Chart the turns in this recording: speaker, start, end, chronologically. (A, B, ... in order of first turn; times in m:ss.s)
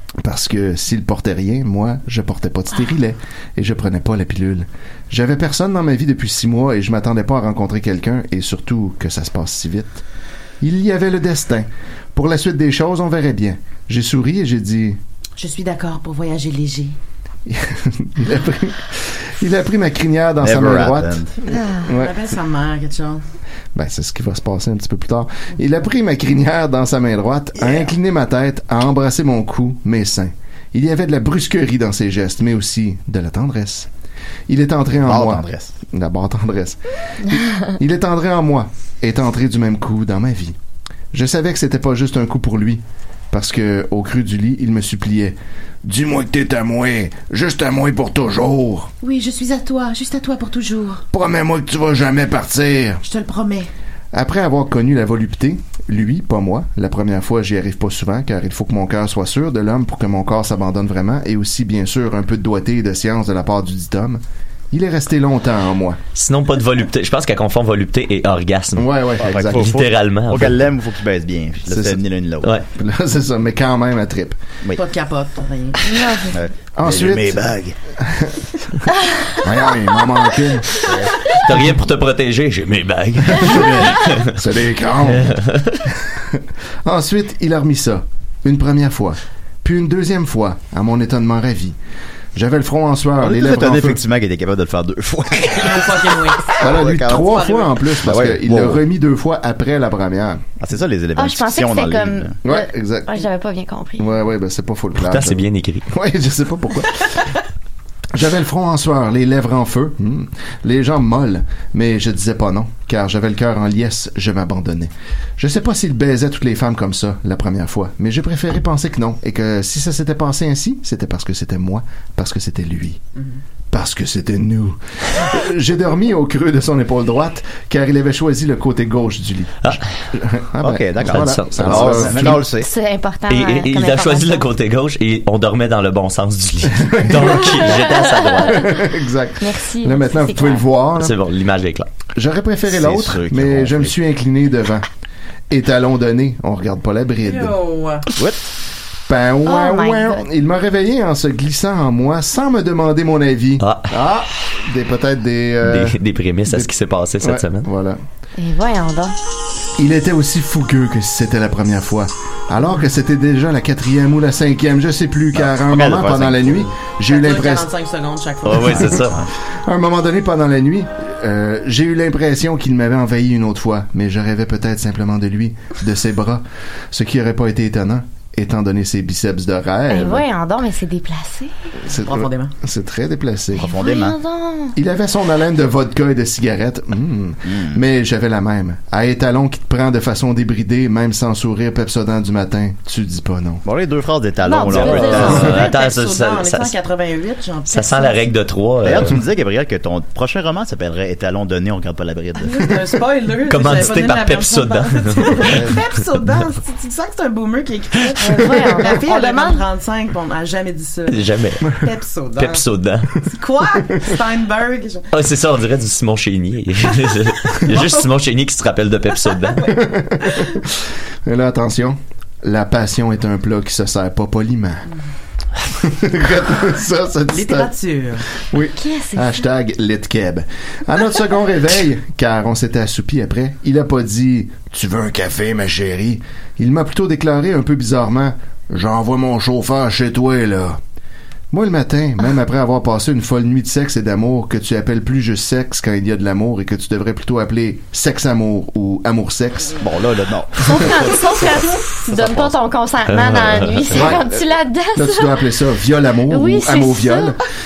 0:00.2-0:10.0 A
0:10.6-0:15.0 A
0:15.4-0:16.9 B
0:17.4-0:21.3 A
0:20.4-0:21.3 C
0:21.5-0:21.9 D
0:21.8-0:22.2 A
0:21.9-0:23.2 B
0:23.7-0:33.9 A
0:27.6-0:27.9 C
0:34.5-0:40.6 A
0:35.0-0:35.7 C
0:41.1-0:48.9 A
0:49.0-0:51.0 B
0:51.1-0:53.0 A
0:53.0-0:53.7 B
0:54.1-1:06.0 A
1:06.1-1:08.9 E
1:08.8-1:09.8 A
1:09.2-1:12.5 C
1:09.5-1:10.6 E
1:11.7-1:12.0 A
1:12.7-1:14.4 A
1:14.8-1:15.8 B
1:15.8-1:16.4 D
1:16.2-1:17.7 C
1:16.8-1:18.8 A
1:19.4-1:20.7 A
1:20.8-1:21.1 C
1:21.3-1:24.4 E
1:23.3-1:24.0 C
1:24.3-1:31.8 A
1:25.1-1:25.8 E
1:32.3-1:34.0 A
1:33.2-1:37.4 C
1:35.6-1:36.6 B
1:36.6-1:40.4 A
1:37.2-1:37.8 B
1:38.0-1:38.8 C
1:40.6-1:42.3 C
1:41.2-1:44.2 D
1:42.4-1:43.2 A
1:44.0-1:47.1 A
1:45.0-1:45.9 E
1:48.1-2:03.0 A
2:03.7-2:12.4 A
2:10.6-2:12.7 C
2:11.0-2:12.4 E
2:12.6-2:14.5 D
2:13.3-2:18.7 E
2:16.7-2:17.8 A
2:17.8-2:18.4 D
2:18.4-2:21.1 A
2:19.4-2:20.7 D
2:21.0-2:21.9 E
2:22.1-2:24.8 A
2:22.7-2:23.9 C
2:25.5-2:27.6 A
2:27.2-2:28.1 B
2:28.2-2:28.5 C
2:29.1-2:38.0 A
2:29.4-2:30.2 D
2:33.6-2:33.9 E
2:35.6-2:37.7 E
2:38.4-2:39.2 D
2:39.8-2:47.7 A
2:45.4-2:46.8 C
2:47.0-2:49.0 B
2:48.4-2:49.2 E
2:48.9-2:49.3 C
2:49.6-3:00.2 A
2:59.9-3:01.7 D
3:01.8-3:03.7 A
3:01.9-3:02.5 B
3:03.5-3:04.8 D
3:03.6-3:04.2 C
3:04.7-3:13.6 A
3:07.4-3:07.8 C
3:13.6-3:15.5 C
3:14.4-3:15.5 D
3:14.8-3:16.7 E
3:14.9-3:18.3 B
3:17.7-3:19.2 E
3:18.8-3:22.9 C
3:22.4-3:32.6 B
3:23.5-3:25.6 E
3:28.2-3:29.6 D
3:31.1-3:31.8 E
3:32.4-3:33.2 E
3:33.2-3:35.1 B
3:35.1-3:39.7 E
3:39.6-3:44.8 A
3:45.7-3:47.7 A
3:47.3-3:48.2 B
3:48.4-4:00.8 A
3:48.7-3:49.4 D
4:01.5-4:09.8 A
4:09.8-4:11.5 C
4:10.6-4:15.4 D
4:12.1-4:12.5 C
4:13.1-4:13.9 E
4:13.9-4:14.4 A
4:14.9-4:17.4 A
4:16.3-4:17.3 D